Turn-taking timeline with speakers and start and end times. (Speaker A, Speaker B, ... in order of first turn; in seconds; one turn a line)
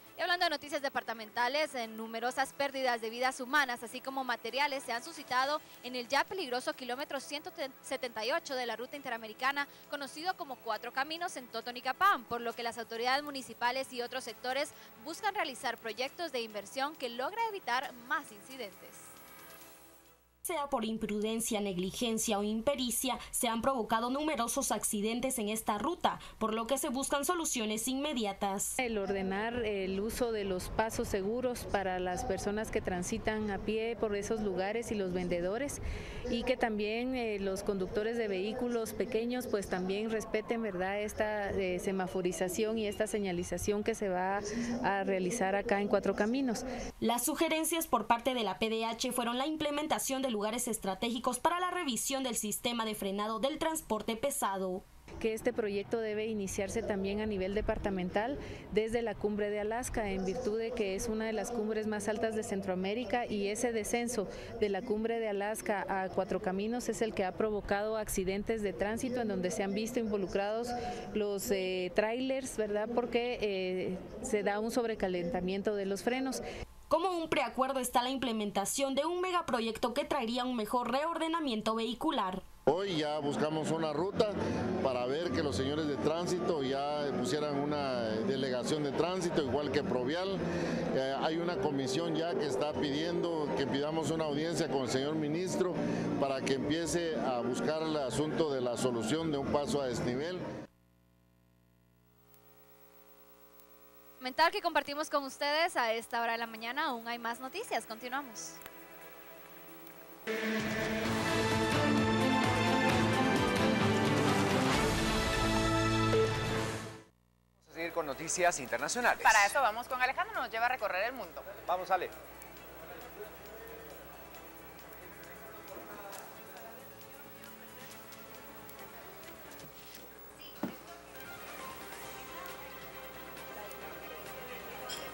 Speaker A: 0.2-19.1
Speaker B: 20.4-28.8
Speaker C: 28.8-35.8
Speaker C: 36.3-46.6
Speaker B: 47.0-54.8
Speaker C: 55.2-76.4
Speaker B: 76.9-82.5
Speaker D: 82.7-90.4
Speaker D: 90.9-100.4
Speaker A: 104.2-108.6
Speaker E: 117.6-119.6
Speaker F: 119.3-121.5
Speaker E: 121.6-122.1